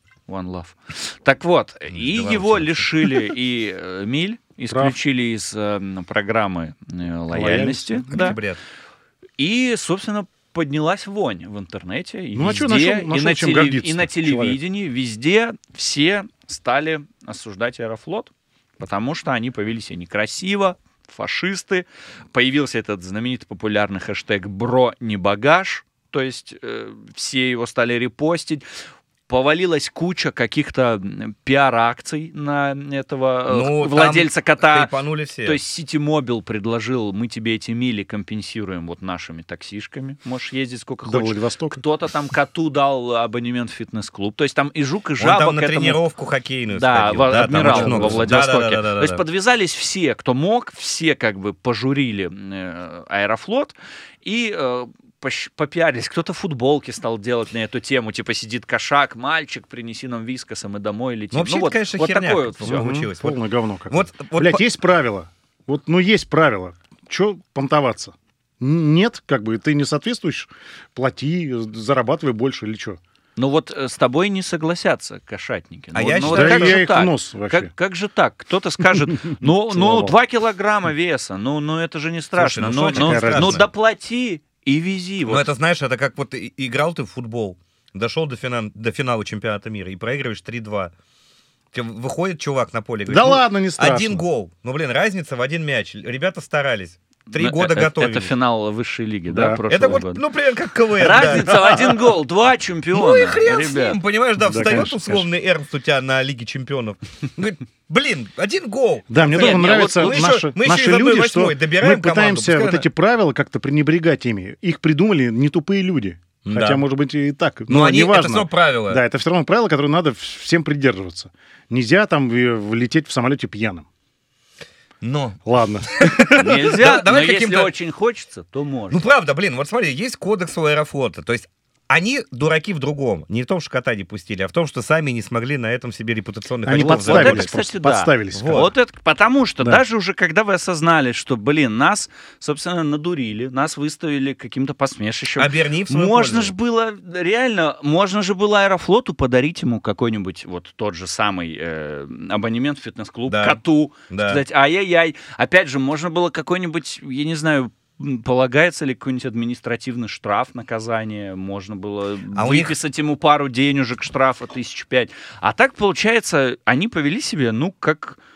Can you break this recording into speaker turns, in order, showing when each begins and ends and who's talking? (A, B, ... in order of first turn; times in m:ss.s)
0:00.3-0:08.4 A
0:01.9-0:02.9 B
0:04.7-0:05.0 C
0:07.3-0:08.4 C
0:08.1-0:08.6 B
0:09.4-0:28.6 A
0:12.3-0:14.6 C
0:29.3-0:34.9 A
0:33.5-0:35.6 B
0:35.4-0:46.0 A
0:41.0-0:41.8 C
0:45.2-0:49.2 B
0:46.7-1:02.9 A
0:47.6-0:48.3 C
1:01.3-1:03.4 B
1:02.6-1:13.0 C
1:03.9-1:04.6 B
1:13.4-1:25.5 A
1:16.0-1:16.8 B
1:16.2-1:17.7 C
1:19.1-1:20.2 C
1:22.4-1:23.7 B
1:23.0-1:23.7 C
1:25.3-1:30.9 B
1:31.7-1:38.3 B
1:33.1-1:34.2 C
1:37.3-1:40.2 A
1:39.3-1:39.6 C
1:39.7-1:42.1 B
1:41.0-1:44.0 A
1:41.4-1:41.8 C
1:42.9-1:52.9 B
1:44.4-1:45.3 C
1:49.1-2:03.9 C
1:49.4-1:50.2 A
1:56.4-1:56.8 B
1:57.7-1:59.0 B
2:05.0-2:07.7 B
2:05.4-2:06.6 C
2:06.4-2:09.0 A
2:08.9-2:17.5 B
2:16.6-2:18.7 C
2:16.8-2:48.2 A
2:18.3-2:18.7 B
2:25.4-2:26.5 B
2:33.3-2:34.4 B
2:42.3-2:42.8 B